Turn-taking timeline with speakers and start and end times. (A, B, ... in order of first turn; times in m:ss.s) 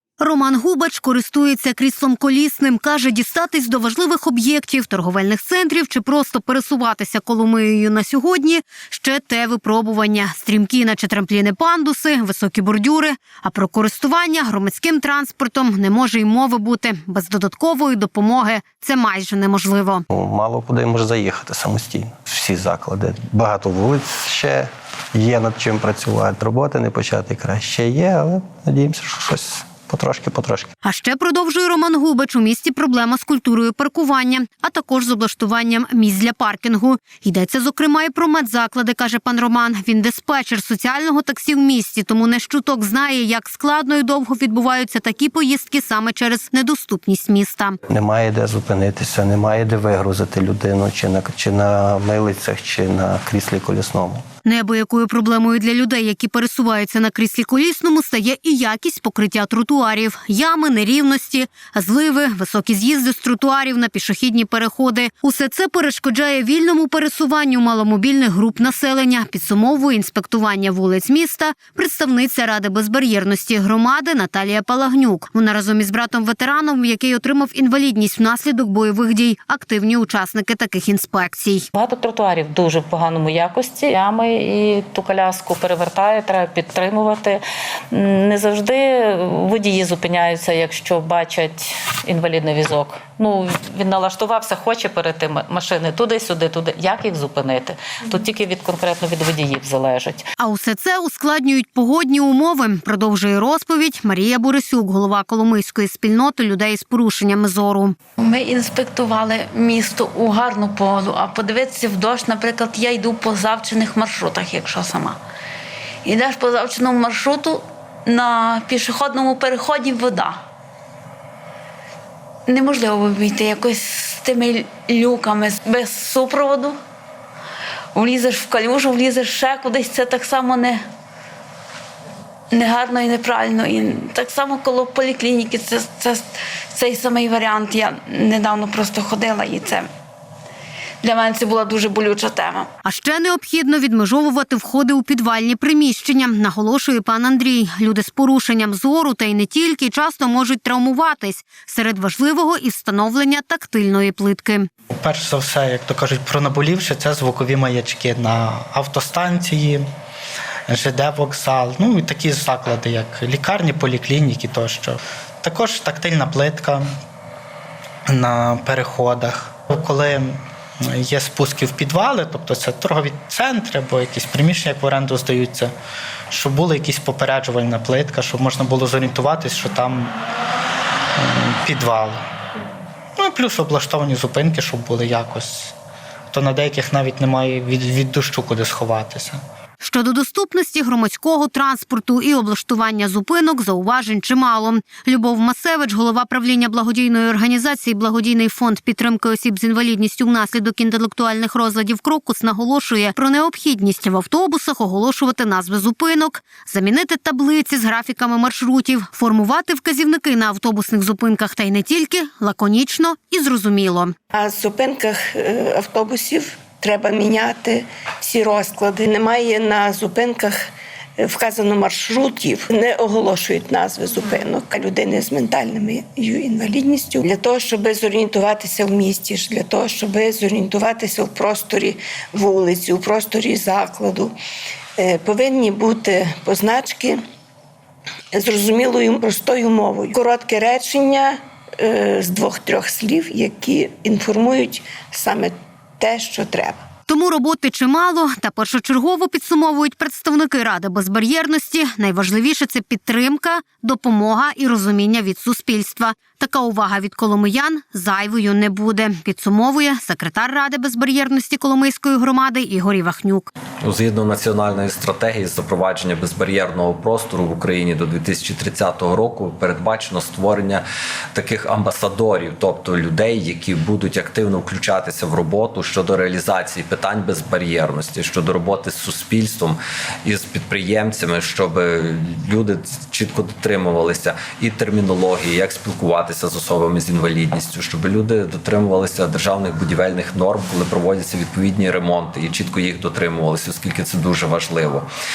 0:00.2-0:20.0 A
0:20.1-0:30.7 B
0:30.8-0:47.8 A
0:47.9-0:54.2 B
0:54.4-1:21.7 A
1:21.7-1:27.4 C
1:27.9-1:40.2 C
1:40.4-1:48.0 A
1:48.2-1:55.2 D
1:56.0-2:00.4 D
2:02.5-2:06.8 D
2:07.9-2:10.8 D
2:12.5-2:19.9 D
2:21.0-2:22.7 D
2:22.8-2:34.7 A
2:35.0-2:39.8 E
2:40.7-2:46.9 E
2:48.1-2:55.7 E
2:56.3-3:00.1 E
3:01.2-3:02.2 E
3:03.2-3:05.7 E
3:06.3-3:09.4 E
3:09.8-3:34.1 A
3:34.3-3:54.4 F
3:55.0-3:57.2 F
3:58.3-4:06.8 F
4:07.1-4:23.5 A
4:23.8-4:55.1 G